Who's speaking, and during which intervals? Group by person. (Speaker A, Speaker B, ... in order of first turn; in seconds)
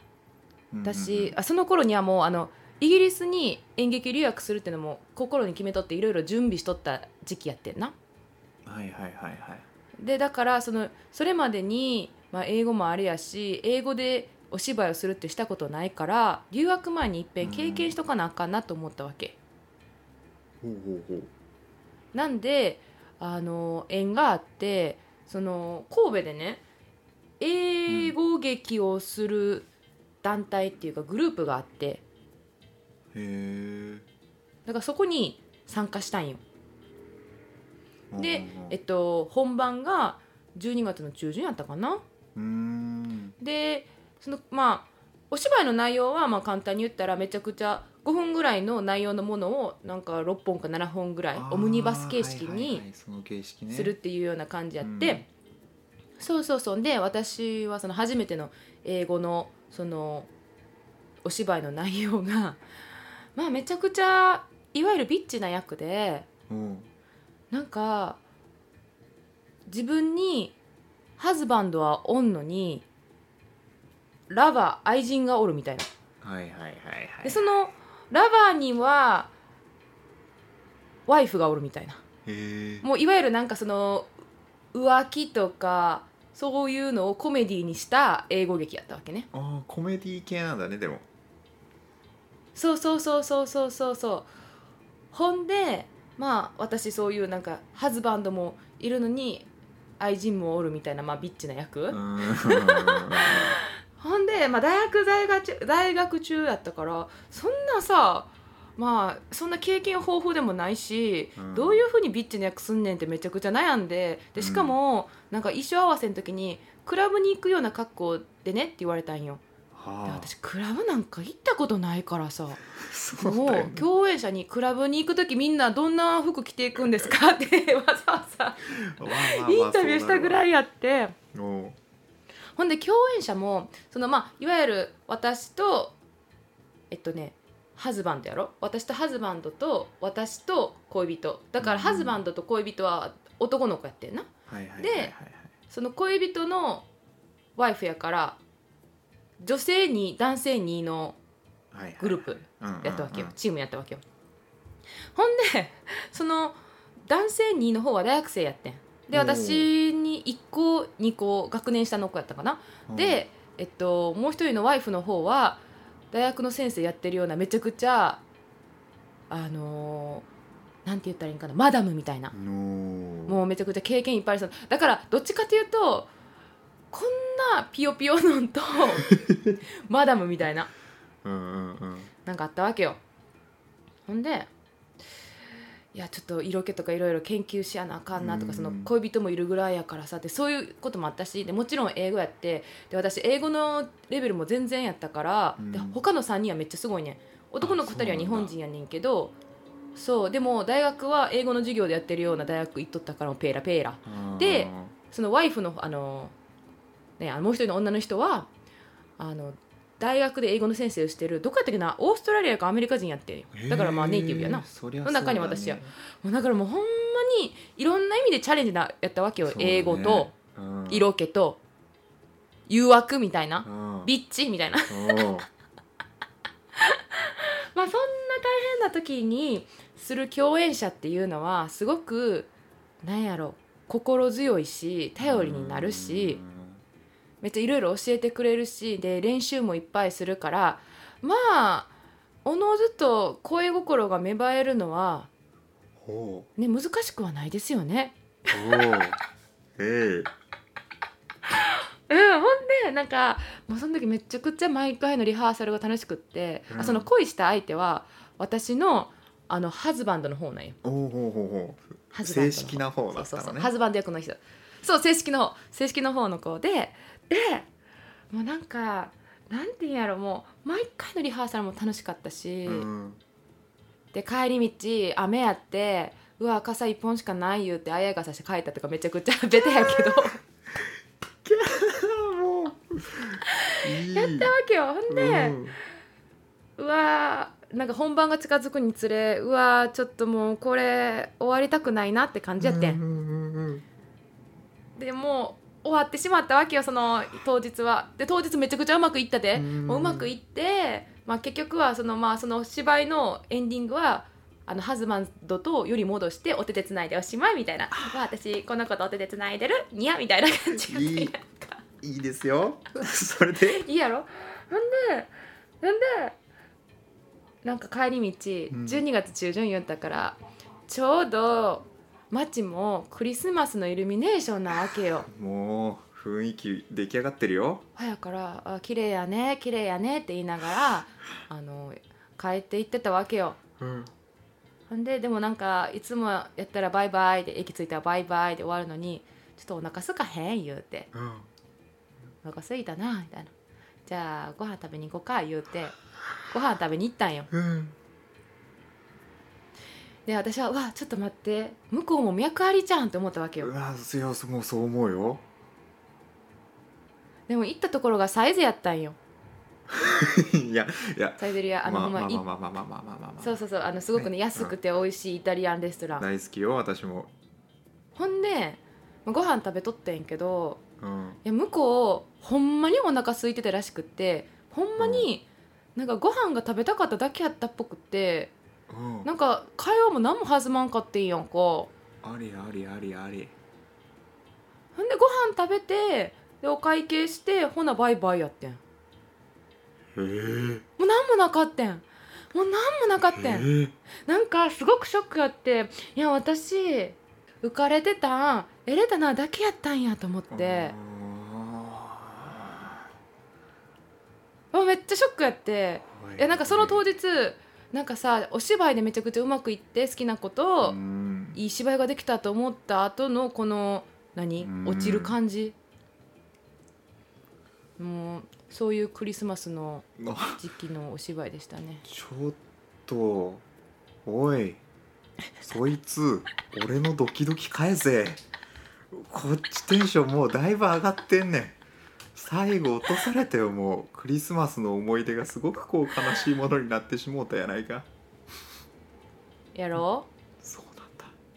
Speaker A: 0.7-1.4, 8.7-9.6, 17.4-17.9, 20.6-21.3, 27.9-28.1, 33.1-34.0, 38.1-38.8, 42.4-43.4, 51.3-54.0, 54.8-55.2, 66.5-66.9, 76.2-77.4, 82.2-82.8, 89.3-91.0, 101.9-103.6, 111.4-111.8, 114.4-114.8, 119.7-120.3, 122.7-123.9, 128.7-130.4, 131.3-131.8, 141.6-142.2, 144.5-145.5, 151.7-153.3, 159.1-159.7, 162.9-163.2, 172.3-173.4, 179.0-179.6, 181.2-182.1, 188.2-188.9, 195.6-196.0, 197.6-198.5, 204.0-204.9, 213.5-215.9, 219.4-221.1, 223.6-224.1, 224.9-225.5, 235.2-236.8, 246.0-246.5, 248.5-249.2, 249.8-250.3, 256.7-257.1, 260.8-263.7, 272.6-273.2, 279.7-280.2, 281.4-284.5, 285.1-285.8, 292.6-293.8, 299.5-300.3, 310.8-311.3, 312.0-313.8, 318.7-319.0, 325.2-327.8, 333.8-334.1, 341.1-341.5, 347.5-347.9, 353.6-355.4, 359.9-363.6, 364.1-364.7, 366.2-367.3, 371.0-371.4, 375.0-375.3, 378.9-379.3, 382.2-383.5, 390.1-390.8, 393.3-393.9, 400.5-403.0, 406.1-407.0, 410.8-411.6, 414.6-415.4, 420.2-420.6, 422.1-423.6, 424.2-424.8, 425.6-428.4, 429.1-431.8, 432.3-438.1, 440.6-441.3
Speaker B: 0.8-7.9, 10.0-19.4, 22.1-26.6, 27.4-29.7, 30.2-32.0, 34.6-36.4, 38.2-42.0, 43.4-52.8, 53.7-55.2, 56.2-60.3, 61.2-62.6, 63.3-66.3, 67.5-68.2, 69.7-70.5, 71.2-72.8, 74.3-75.9, 77.2-79.3, 81.1-82.0, 82.8-84.1, 84.7-89.3, 92.5-94.3, 95.1-99.5, 100.0-119.4, 120.0-122.6, 123.2-131.2, 132.6-135.9, 136.9-145.1, 145.7-146.9, 147.6-148.4, 149.4-151.2, 152.0-154.0, 155.1-165.6, 166.1-168.2, 169.3-170.2, 170.8-172.3, 173.2-176.1, 176.9-179.1, 179.9-180.7, 182.2-183.0, 184.1-184.5, 185.9-199.3, 199.9-206.3, 207.2-208.5, 209.2-220.3, 220.9-221.6, 222.7-225.2, 226.8-232.5, 233.0-236.4, 237.4-241.9, 242.4-245.3, 246.6-249.0, 251.5-260.8, 262.1-267.7, 268.3-272.9, 274.1-280.4, 283.6-285.6, 286.8-293.0, 294.9-311.4, 313.7-316.4, 317.6-325.3, 327.9-333.6, 334.9-341.1, 342.4-343.5, 344.1-347.5, 350.2-353.7, 357.5-359.2, 361.4-362.4, 363.4-366.2, 368.1-370.8, 371.4-375.4, 375.9-378.5, 379.2-381.9, 384.9-388.8, 391.0-393.7, 394.3-400.9, 404.7-411.0, 411.5-415.7, 418.0-422.0, 439.7-440.3